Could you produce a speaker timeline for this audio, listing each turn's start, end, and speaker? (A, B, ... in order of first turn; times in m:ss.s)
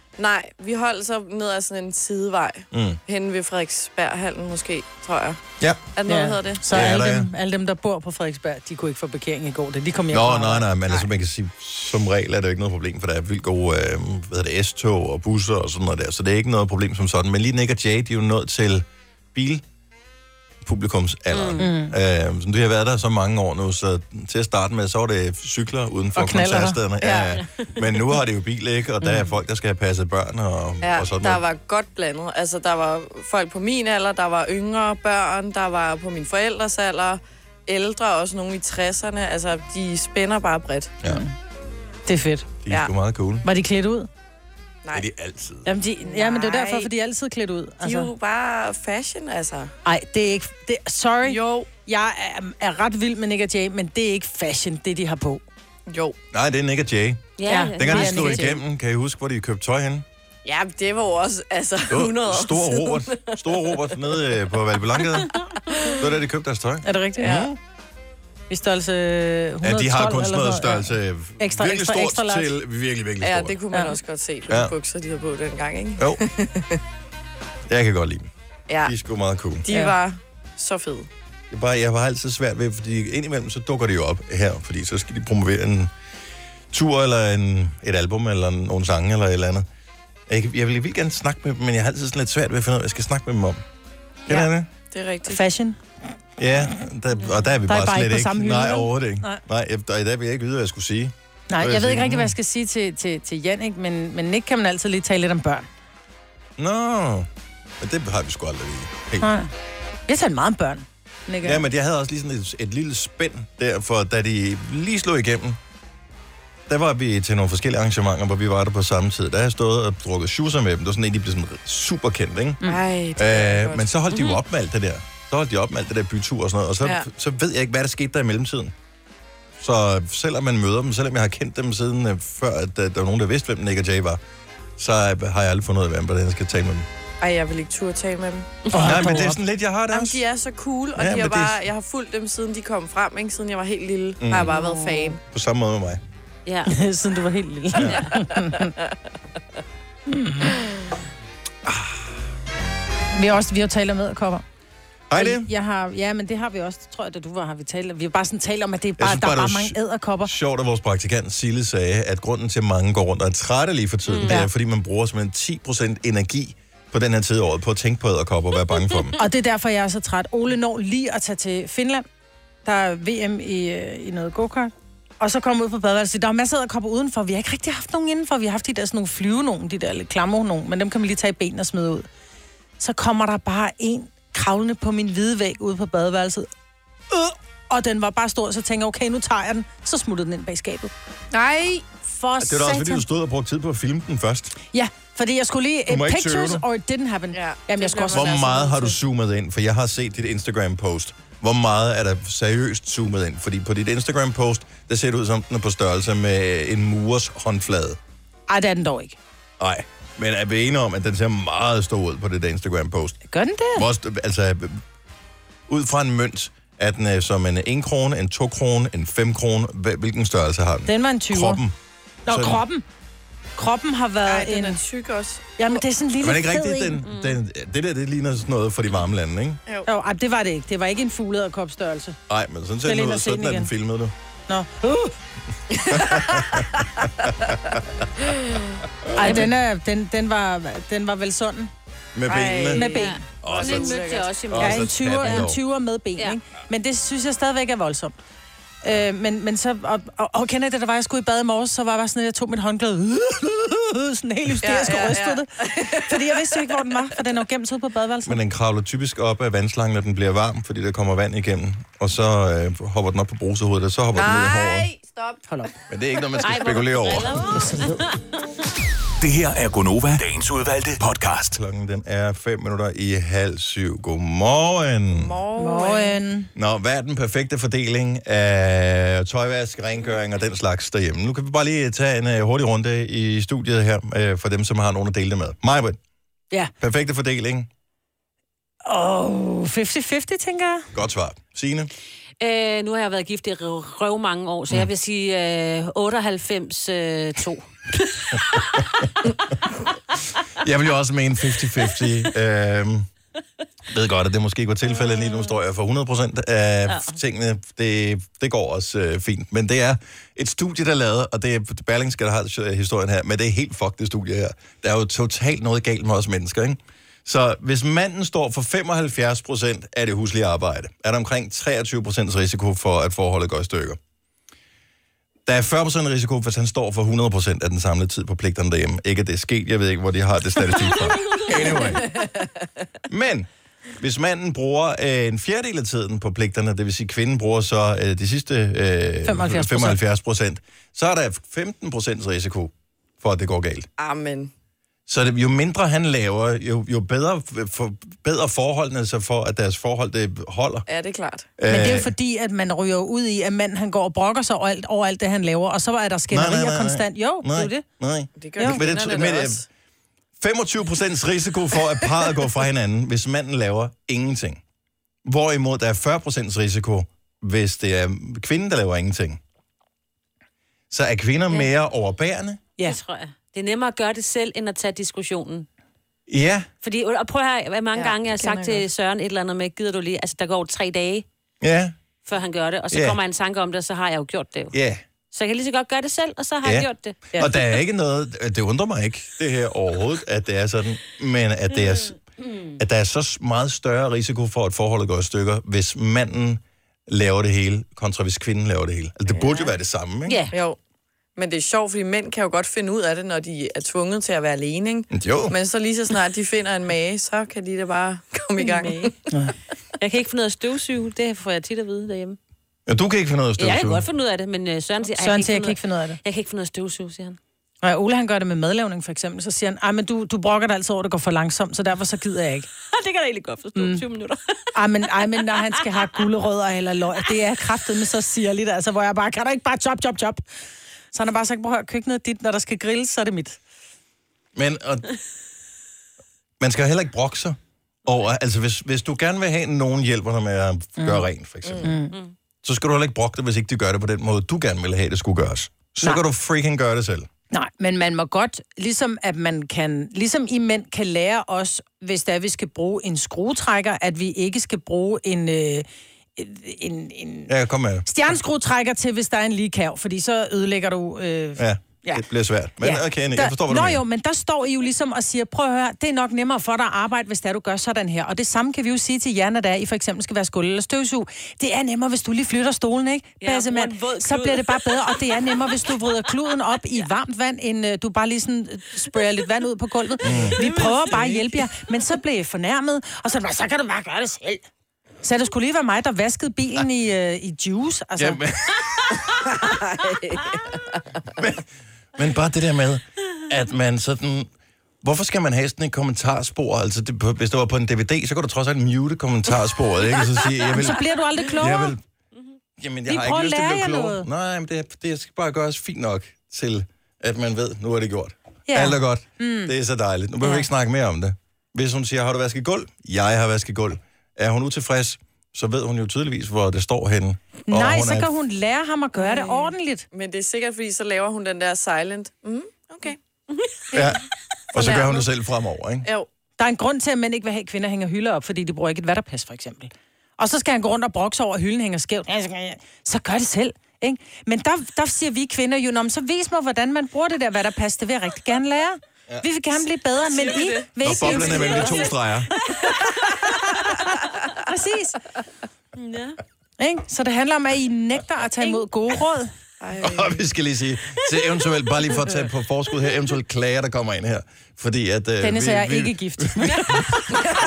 0:00.2-0:05.4 A
0:02.7-0:03.0 B
0:05.6-0:05.8 B
0:06.0-0:06.8 A
0:06.0-0:10.7 C
0:06.7-0:07.3 B
0:10.1-0:19.6 B
0:20.6-0:31.4 B
0:21.3-0:21.7 D
0:21.6-0:21.9 C
0:26.2-0:26.8 C
0:27.0-0:27.4 A
0:30.8-0:41.0 A
0:41.0-0:41.3 C
0:42.0-0:42.5 C
0:42.6-0:43.5 B
0:43.4-0:44.1 C
0:44.9-0:45.7 B
0:45.6-0:48.1 C
0:46.0-0:46.9 A
0:47.8-0:49.7 A
0:49.8-0:55.4 C
0:51.2-0:51.7 A
0:55.9-0:56.2 A
0:56.3-1:00.0 B
0:57.4-0:58.6 D
0:57.5-0:58.6 C
1:00.4-1:03.9 A
1:01.9-1:05.3 B
1:05.9-1:07.6 B
1:06.8-1:07.4 C
1:07.2-1:07.5 A
1:08.5-1:12.5 C
1:09.6-1:13.6 B
1:13.2-1:16.8 A
1:14.5-1:14.7 B
1:17.7-1:18.3 B
1:18.7-1:18.9 A
1:18.8-1:19.7 B
1:19.6-1:21.1 A
1:19.7-1:19.9 C
1:21.5-1:25.9 B
1:26.7-1:29.6 B
1:30.3-1:33.6 B
1:34.2-1:34.7 B
1:34.9-1:35.4 A
1:35.3-1:35.8 C
1:36.4-1:42.3 B
1:37.6-1:39.4 C
1:41.5-1:45.7 C
1:46.6-1:47.3 B
1:47.8-1:49.3 B
1:49.2-1:49.5 C
1:50.1-1:51.6 C
1:51.4-1:55.6 B
1:56.7-2:02.6 B
2:02.6-2:03.9 A
2:03.2-2:08.7 B
2:09.6-2:14.2 B
2:14.8-2:16.9 B
2:17.2-2:18.8 A
2:18.7-2:18.9 D
2:18.7-2:19.4 C
2:18.8-2:20.2 B
2:19.9-2:25.2 A
2:20.9-2:21.6 B
2:24.2-2:24.5 B
2:25.3-2:26.0 B
2:26.4-2:26.7 D
2:26.7-2:28.7 C
2:27.7-2:28.0 B
2:30.1-2:30.6 C
2:31.6-2:32.1 B
2:33.1-2:34.4 C
2:35.1-2:35.5 B
2:35.1-2:40.3 C
2:39.0-2:49.2 B
2:44.1-2:44.4 D
2:49.2-2:52.0 C
2:52.6-3:02.1 C
3:02.8-3:06.5 C
3:07.1-3:10.9 C
3:11.3-3:11.8 A
3:12.0-3:13.0 C
3:12.4-3:14.5 B
3:14.7-3:18.5 C
3:15.9-3:16.6 B
3:17.3-3:19.0 A
3:18.1-3:28.0 B
3:28.5-3:29.2 C
3:29.6-3:33.2 B
3:33.3-3:33.8 C
3:33.7-3:34.8 B
3:35.7-3:41.7 B
3:40.8-3:41.6 C
3:42.2-3:42.8 C
3:42.3-3:42.6 B
3:43.6-3:44.8 C
3:44.3-3:45.8 A
3:45.6-3:47.0 C
3:46.2-3:49.6 B
3:47.0-3:47.4 D
3:49.8-3:52.2 C
3:52.3-3:54.1 B
3:52.8-3:53.7 C
3:54.5-3:55.1 C
3:55.8-3:56.7 A
3:55.9-3:57.8 B
3:58.3-3:58.7 A
3:59.0-3:59.5 B
3:59.2-4:01.7 C
4:02.1-4:02.8 B
4:02.3-4:04.3 A
4:02.7-4:03.2 C
4:02.9-4:05.5 D
4:03.4-4:05.6 B
4:04.5-4:08.2 C
4:08.8-4:18.4 C
4:14.6-4:16.7 A
4:18.2-4:24.9 B
4:24.1-4:25.4 A
4:25.9-4:27.5 B
4:26.4-4:28.0 D
4:27.5-4:28.0 C
4:29.2-4:31.6 E
4:31.5-4:35.4 B
4:35.1-4:36.2 A
4:35.6-4:36.5 C
4:36.5-4:46.0 B
4:46.8-4:47.7 B
4:48.8-4:50.9 C
4:50.9-4:51.9 B
4:52.4-4:57.6 D
5:00.6-5:03.1 B
5:03.9-5:24.0 B
5:05.0-5:05.5 D
5:25.4-5:32.1 B
5:33.1-5:43.9 B
5:39.2-5:40.0 C
5:44.0-5:44.5 A
5:45.1-5:50.9 B
5:50.9-5:51.5 A
5:51.6-5:52.1 B
5:51.7-5:57.8 C
5:56.3-5:59.6 B
5:58.4-5:59.6 A
6:00.4-6:04.6 B
6:05.2-6:09.4 B
6:10.9-6:12.6 B
6:12.8-6:15.7 D
6:16.3-6:16.7 B
6:16.8-6:21.2 D
6:17.9-6:18.8 A
6:21.6-6:22.0 B
6:22.2-6:24.7 D
6:22.9-6:23.2 B
6:24.7-6:25.0 B
6:25.3-6:27.3 D
6:26.6-6:32.2 B
6:32.4-6:32.8 D
6:32.8-6:40.4 B
6:39.3-6:39.7 A
6:40.3-6:40.6 D
6:40.5-6:40.8 A
6:41.4-6:49.1 A
6:45.1-6:45.5 B
6:48.6-6:49.1 D
6:50.0-6:52.4 D
6:52.9-6:54.0 B
6:53.6-6:57.4 D
6:55.2-6:56.2 C
6:57.8-7:02.7 C
7:02.9-7:04.6 D
7:03.8-7:04.0 C
7:04.7-7:10.4 C
7:05.2-7:06.0 D
7:11.1-7:13.6 C
7:14.6-7:15.0 B
7:16.6-7:21.9 B
7:21.0-7:21.3 C
7:21.6-7:21.9 A
7:21.8-7:22.2 C
7:22.6-7:27.3 B
7:27.5-7:37.5 C
7:37.5-7:38.1 B
7:38.0-7:42.2 C
7:41.6-7:44.0 B
7:42.8-8:04.6 C
7:53.4-7:55.6 D
8:00.2-8:00.6 B
8:00.6-8:01.7 D
8:05.2-8:08.4 C
8:08.2-8:09.2 B
8:09.5-8:11.0 A
8:11.4-8:14.5 B
8:15.0-8:21.0 B
8:20.8-8:21.9 C
8:21.5-8:22.0 B
8:22.8-8:38.3 B
8:23.1-8:24.2 C
8:28.7-8:29.7 C
8:37.7-8:40.0 C
8:39.2-8:43.2 A
8:43.9-8:44.2 B
8:44.7-8:46.1 B
8:44.7-8:45.3 A
8:46.6-9:02.1 C
9:00.4-9:02.0 D
9:01.0-9:02.5 B
9:01.4-9:01.9 A
9:03.7-9:05.2 C
9:06.0-9:06.4 D
9:06.8-9:09.5 C
9:09.8-9:10.4 A
9:10.0-9:16.8 B
9:15.4-9:17.0 C